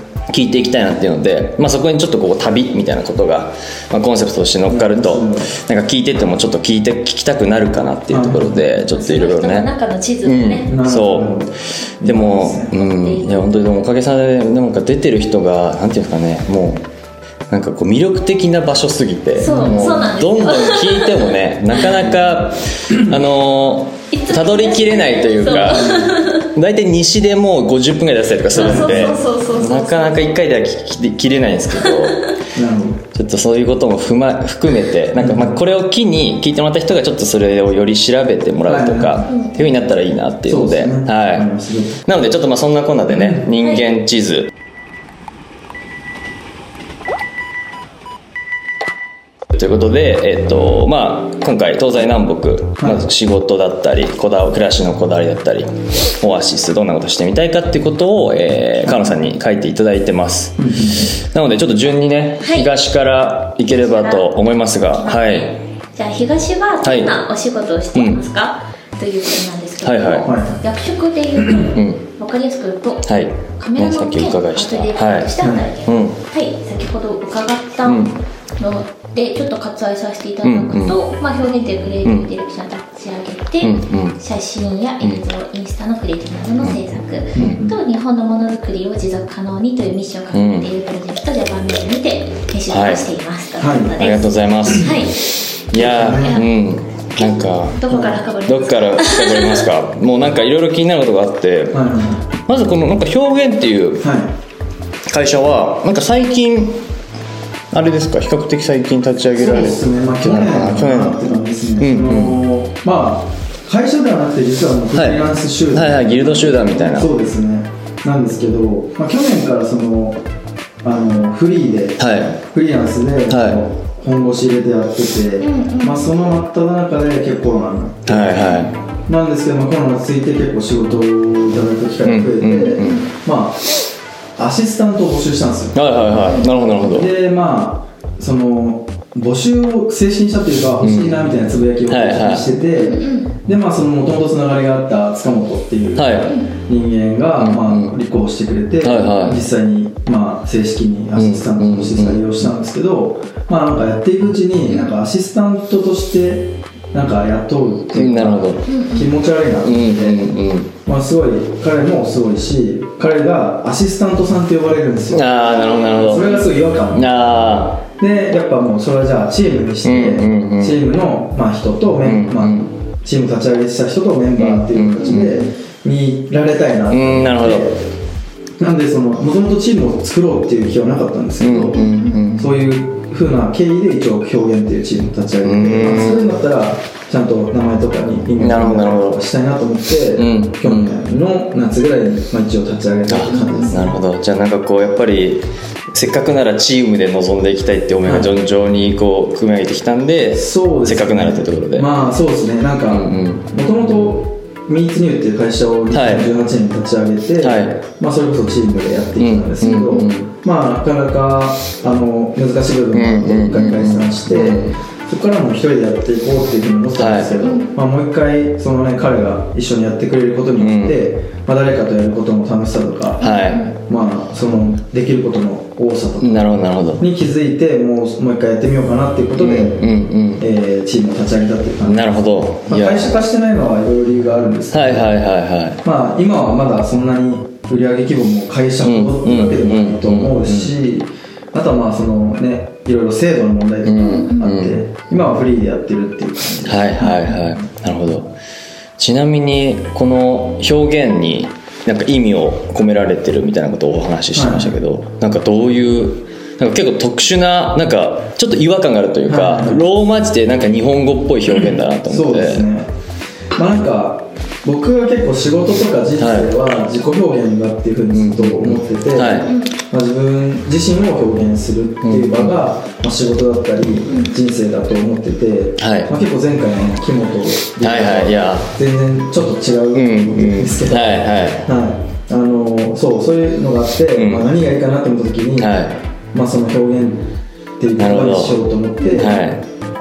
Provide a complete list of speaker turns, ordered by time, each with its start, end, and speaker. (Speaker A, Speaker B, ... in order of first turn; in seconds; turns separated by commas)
Speaker A: 0.3-9.7, Speaker B: 4.7-5.5, Speaker B: 8.1-8.7, Speaker C: 8.9-10.7, Speaker A: 10.2-11.4, Speaker B: 10.7-12.8, Speaker A: 12.0-16.9, Speaker C: 12.8-13.3, Speaker A: 17.5-32.4, Speaker C: 19.4-21.9, Speaker B: 19.4-20.0, Speaker C: 24.1-26.5, Speaker B: 25.6-26.1, Speaker C: 28.5-30.4, Speaker B: 28.5-29.1, Speaker C: 31.8-32.3, Speaker B: 32.5-33.0, Speaker A: 33.1-41.5, Speaker B: 35.2-35.6, Speaker B: 38.7-39.3, Speaker C: 39.3-39.6, Speaker B: 40.5-42.0, Speaker A: 42.1-44.5, Speaker B: 43.1-43.5, Speaker A: 49.5-60.6, Speaker B: 58.8-59.1, Speaker B: 60.6-61.1, Speaker A: 61.1-65.5, Speaker C: 62.4-62.7, Speaker C: 63.7-64.4, Speaker C: 64.9-95.2, Speaker A: 66.8-67.2, Speaker A: 69.8-70.3, Speaker B: 70.2-70.6, Speaker A: 71.7-72.0, Speaker A: 73.0-76.2, Speaker B: 75.4-75.7, Speaker A: 77.8-78.2, Speaker A: 80.4-81.0, Speaker A: 83.6-84.2, Speaker B: 87.3-87.8, Speaker A: 87.3-87.6, Speaker A: 90.3-90.7, Speaker A: 92.7-93.1, Speaker B: 93.6-94.0, Speaker A: 94.0-95.1, Speaker A: 95.7-97.9, Speaker B: 95.8-96.4, Speaker C: 96.2-96.5, Speaker C: 97.2-99.7, Speaker B: 97.9-98.2, Speaker A: 98.5-104.1, Speaker B: 101.7-102.3, Speaker B: 104.0-104.3, Speaker A: 105.1-106.8, Speaker A: 107.7-112.4, Speaker B: 109.3-120.2, Speaker A: 114.9-117.1, Speaker B: 120.8-133.7, Speaker A: 122.0-122.4, Speaker A: 123.3-123.6, Speaker C: 125.4-126.1, Speaker A: 128.1-128.8, Speaker A: 132.0-133.0, Speaker C: 132.8-133.1, Speaker B: 134.4-135.8, Speaker A: 135.8-137.1, Speaker B: 136.8-160.3, Speaker A: 140.8-141.3, Speaker A: 141.9-142.6, Speaker C: 142.7-143.3, Speaker A: 146.0-146.3, Speaker A: 147.4-147.9, Speaker A: 148.8-149.4, Speaker A: 151.2-152.5, Speaker A: 157.9-158.6, Speaker C: 158.7-159.1, Speaker A: 159.6-160.7, Speaker B: 160.8-165.3, Speaker A: 165.1-166.3, Speaker C: 165.7-166.5, Speaker B: 166.0-167.2, Speaker A: 166.9-167.8, Speaker B: 168.0-177.8, Speaker A: 169.8-170.8, Speaker A: 172.0-172.7, Speaker A: 174.4-175.4, Speaker C: 175.1-175.5, Speaker A: 176.9-177.7, Speaker B: 178.6-181.8, Speaker A: 181.4-182.5, Speaker C: 181.7-182.4, Speaker B: 182.4-194.0, Speaker A: 185.4-186.3, Speaker A: 188.4-189.2, Speaker A: 190.2-190.9, Speaker A: 193.1-201.9, Speaker C: 193.3-193.7, Speaker B: 198.0-198.3, Speaker B: 200.3-235.2, Speaker A: 202.9-203.5, Speaker A: 205.9-206.3, Speaker A: 207.4-207.8, Speaker A: 209.2-210.3, Speaker A: 212.9-214.8, Speaker A: 217.0-217.4, Speaker C: 217.4-217.8, Speaker A: 220.6-221.0, Speaker A: 223.2-223.7, Speaker C: 223.2-223.7, Speaker A: 226.2-227.0, Speaker A: 229.4-230.4, Speaker A: 231.8-233.2, Speaker A: 234.7-235.8, Speaker B: 235.8-247.6, Speaker A: 238.8-240.7, Speaker A: 243.8-244.8, Speaker C: 244.0-244.5, Speaker A: 246.7-248.3, Speaker A: 249.0-262.7, Speaker B: 254.3-254.7, Speaker B: 259.3-259.8, Speaker B: 262.1-262.9, Speaker B: 263.6-285.8, Speaker A: 266.2-266.5, Speaker A: 268.1-269.5, Speaker C: 269.4-269.8, Speaker A: 272.0-272.6, Speaker A: 275.8-276.1, Speaker A: 277.8-278.7, Speaker A: 279.9-281.7, Speaker A: 284.1-284.5, Speaker A: 285.6-286.0, Speaker B: 286.3-287.2, Speaker B: 287.8-289.4, Speaker A: 288.0-289.6, Speaker C: 289.0-289.3